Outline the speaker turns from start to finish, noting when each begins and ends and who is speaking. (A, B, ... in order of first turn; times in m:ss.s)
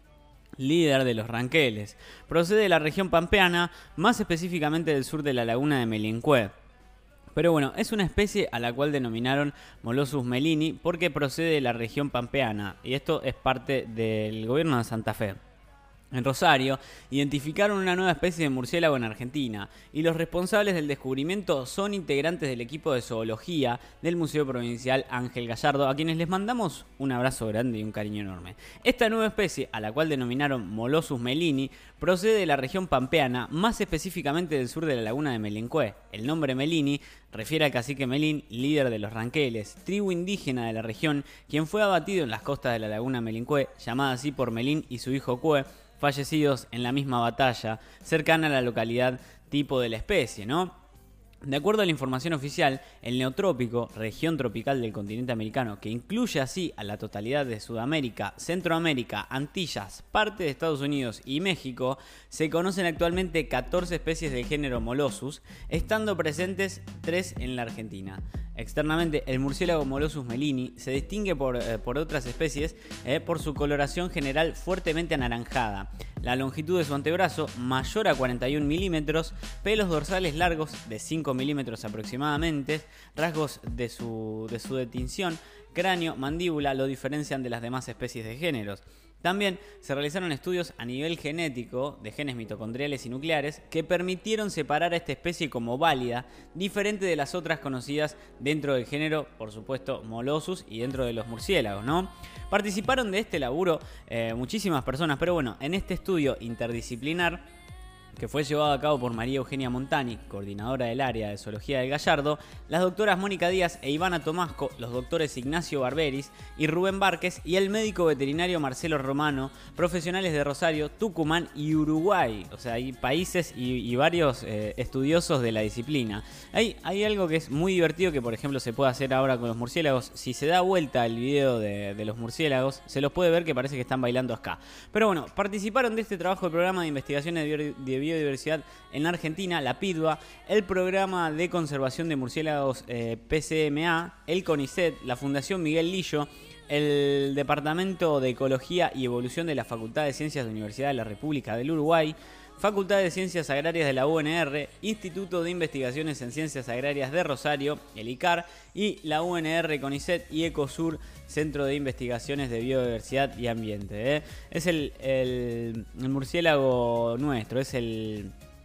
0:00.6-0:06.5 A
0:07.4-0:15.4 A
0:16.1-0:50.8 A
0:51.4-1:47.4 A
1:48.2-2:48.3 A